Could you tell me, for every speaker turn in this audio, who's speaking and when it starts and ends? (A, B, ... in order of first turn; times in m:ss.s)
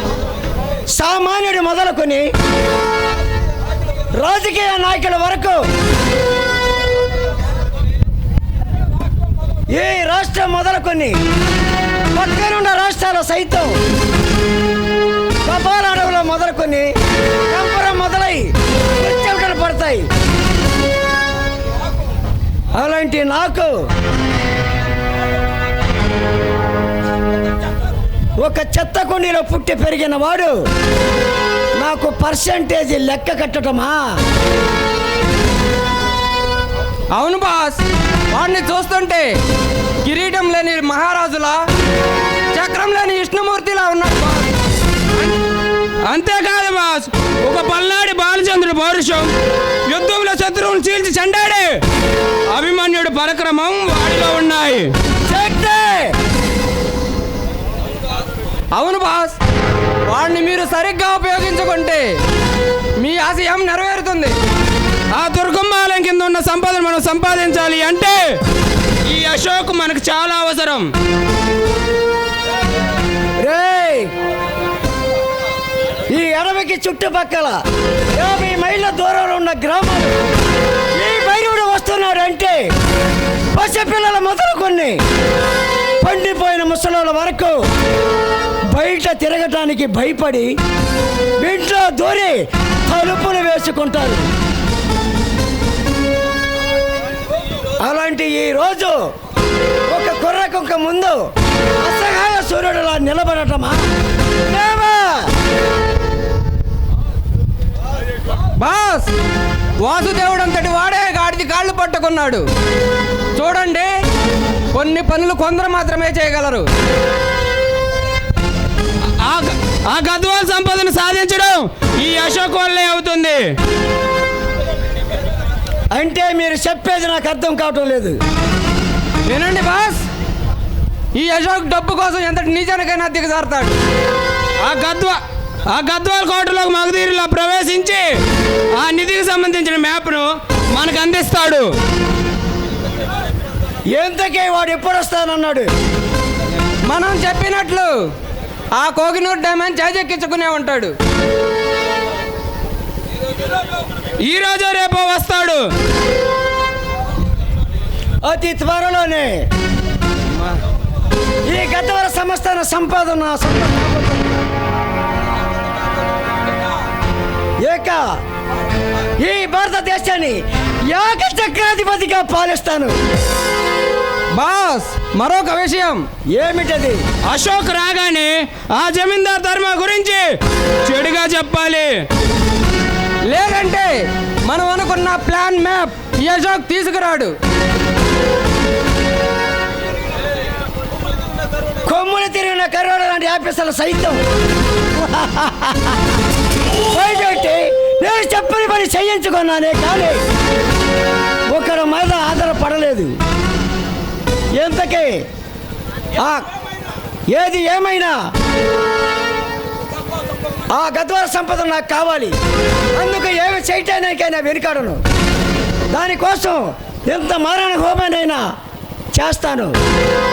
0:01.0-0:02.3 A
0:04.1-0:05.6 A
0:09.7-0:11.2 A
0:12.1-0:13.8 A
0:15.4-0:16.9 A
0:17.5-0:20.1 A
0:22.8-0:23.9 A
0:28.4-0:30.6 A
0:31.8-0:34.2 A
0:37.1-0:39.4 B
0:40.0-0:41.6 B
0:42.5-0:44.5 B
0:46.0-0:49.3 C
0:49.9-0:51.8 C
0:52.5-0:54.9 C
0:55.3-0:56.2 A
0:58.7-0:59.4 B
1:00.0-1:02.2 B
1:03.0-1:04.4 B
1:05.1-1:08.4 C
1:09.0-1:10.9 C
1:13.4-1:14.1 A
1:16.1-1:17.6 A
1:18.1-1:20.2 A
1:20.9-1:22.7 A
1:23.5-1:25.0 A
1:26.0-1:27.6 A
1:28.7-1:30.5 A
1:31.4-1:34.3 A
1:37.8-1:39.0 A
1:39.9-1:41.2 A
1:41.8-1:43.8 A
1:44.5-1:45.3 A
1:48.6-1:49.1 B
1:49.8-1:52.5 B
1:53.4-1:54.0 B
1:54.7-1:56.7 B
1:59.2-2:03.5 C
2:05.9-2:08.2 A
2:09.2-2:10.1 B
2:11.2-2:13.8 B
2:14.6-2:18.1 C
2:18.8-2:21.7 C
2:23.9-2:25.7 A
2:26.9-2:28.1 B
2:28.8-2:31.0 B
2:34.2-2:35.6 C
2:38.2-2:39.5 A
2:41.4-2:44.3 A
2:47.6-2:48.1 A
2:49.2-2:53.0 A
2:54.4-2:56.1 B
2:56.3-2:57.0 A
2:57.3-3:00.3 C
3:00.8-3:02.0 C
3:03.3-3:07.4 B
3:11.8-3:14.2 A
3:15.0-3:16.0 A
3:16.9-3:20.2 A
3:21.5-3:23.2 A
3:24.6-3:25.3 A
3:26.2-3:26.4 A
3:27.3-3:28.2 A
3:30.7-3:32.4 A
3:33.0-3:35.0 A
3:35.9-3:38.5 A
3:39.1-3:39.8 A